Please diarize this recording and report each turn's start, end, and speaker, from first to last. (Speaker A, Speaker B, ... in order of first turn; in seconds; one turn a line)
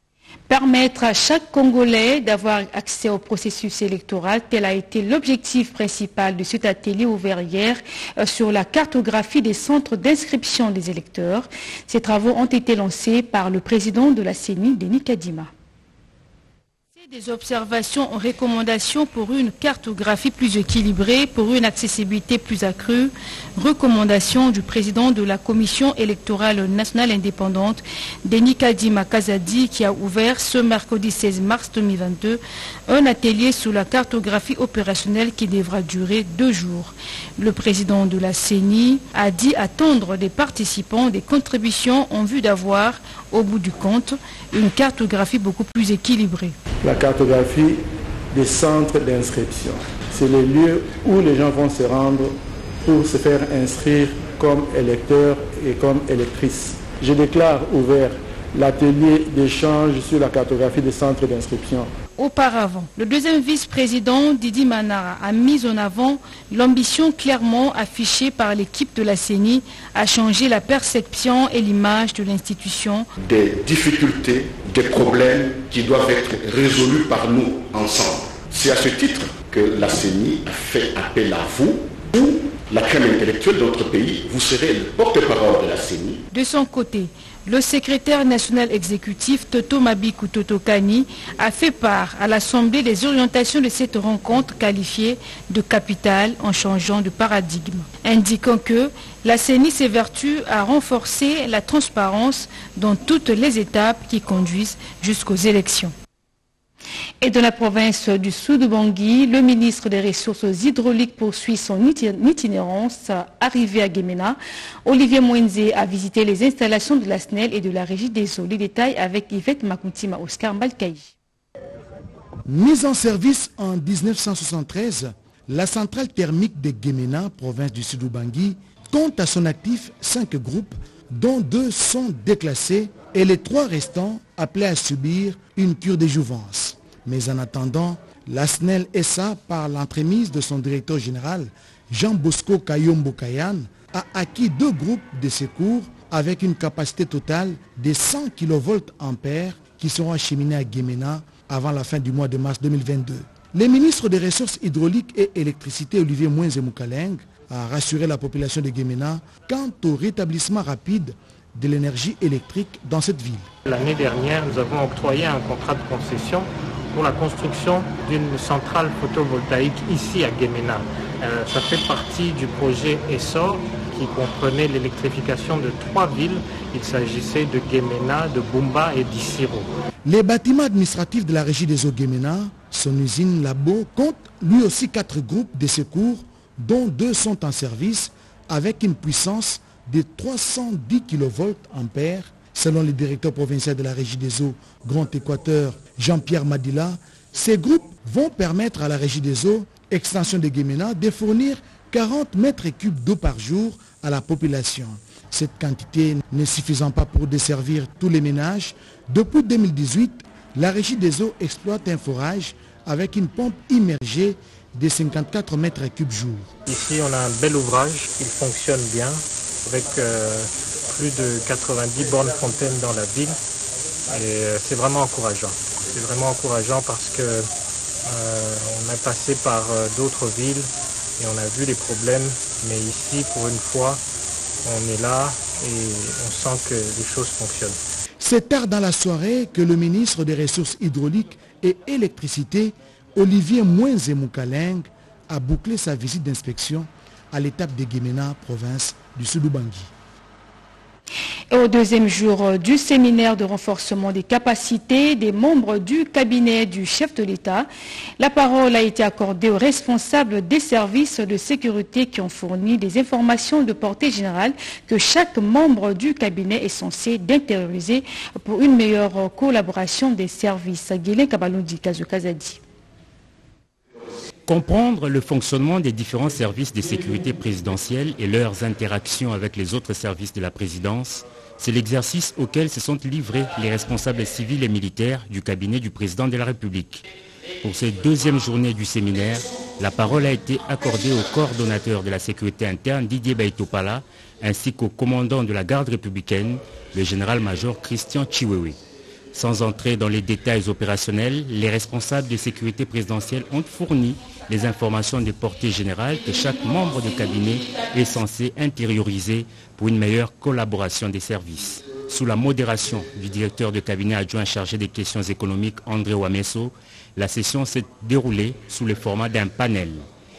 Speaker A: 0.5-15.5
Speaker A: 17.0-46.6
Speaker B: 46.8-61.9
Speaker A: 62.2-73.1
Speaker C: 73.2-86.2
Speaker A: 86.3-105.9
Speaker A: 107.2-121.1
Speaker D: 122.5-163.5
Speaker E: 163.7-179.7
Speaker D: 180.1-216.5
Speaker E: 216.7-223.4
Speaker E: 224.1-227.5
Speaker E: 228.1-234.0
Speaker E: 234.6-237.8
Speaker D: 238.2-249.9
Speaker A: 251.5-257.7
Speaker A: 258.2-272.6
Speaker F: 274.5-287.1
Speaker F: 287.6-298.8
Speaker F: 299.3-320.1